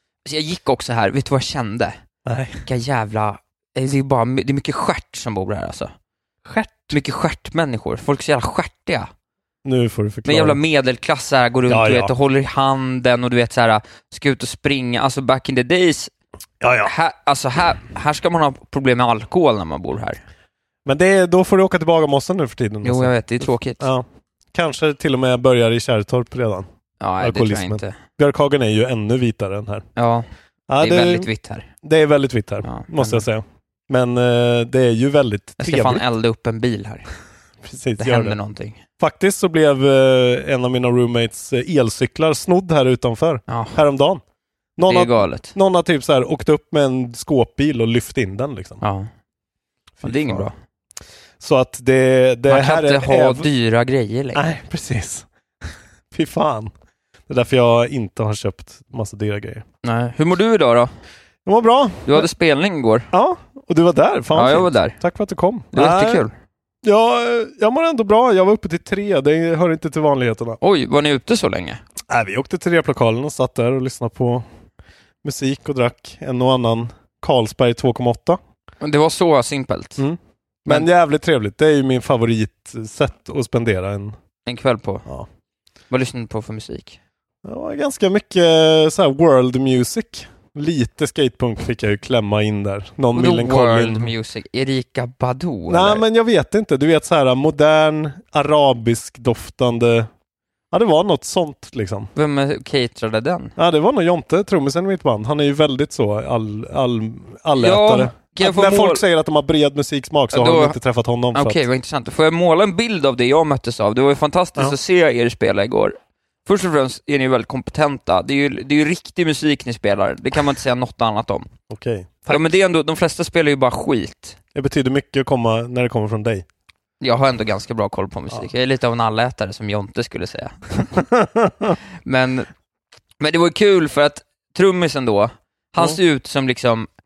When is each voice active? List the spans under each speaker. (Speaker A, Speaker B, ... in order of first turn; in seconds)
Speaker A: 0.2-2.0, 2.6-5.9, 6.9-9.1, 10.2-16.1, 16.8-20.2, 22.8-23.9, 27.0-27.9, 29.9-30.3, 30.8-31.7, 32.6-33.2, 35.6-37.1, 38.0-38.8, 43.5-43.8, 44.9-45.5, 48.8-49.1, 50.0-50.5, 52.5-54.5, 59.8-60.9, 62.1-63.1, 64.3-65.0, 65.7-66.3, 70.6-71.8, 78.8-80.0, 84.5-85.0, 85.9-87.0, 93.1-96.0, 102.2-103.5, 107.5-109.0, 110.3-110.8, 111.3-121.5, 122.3-124.4, 127.0-131.0, 132.0-132.5, 133.2-136.9
Speaker B: 2.2-2.6, 6.4-7.0, 9.6-10.6, 11.7-12.1, 16.6-16.9, 20.8-23.2, 23.8-26.7, 27.2-29.9, 30.7-31.3, 31.8-36.0, 37.6-38.4, 39.0-44.2, 44.8-48.8, 50.0-50.5, 51.4-53.5, 54.3-55.3, 56.1-56.7, 57.3-59.6, 61.4-62.3, 63.1-66.2, 66.8-70.6, 72.1-74.5, 75.2-78.4, 80.0-84.2, 87.4-94.1, 95.7-100.1, 100.7-102.1, 103.5-111.6, 121.7-122.5, 124.5-126.5, 131.0-131.7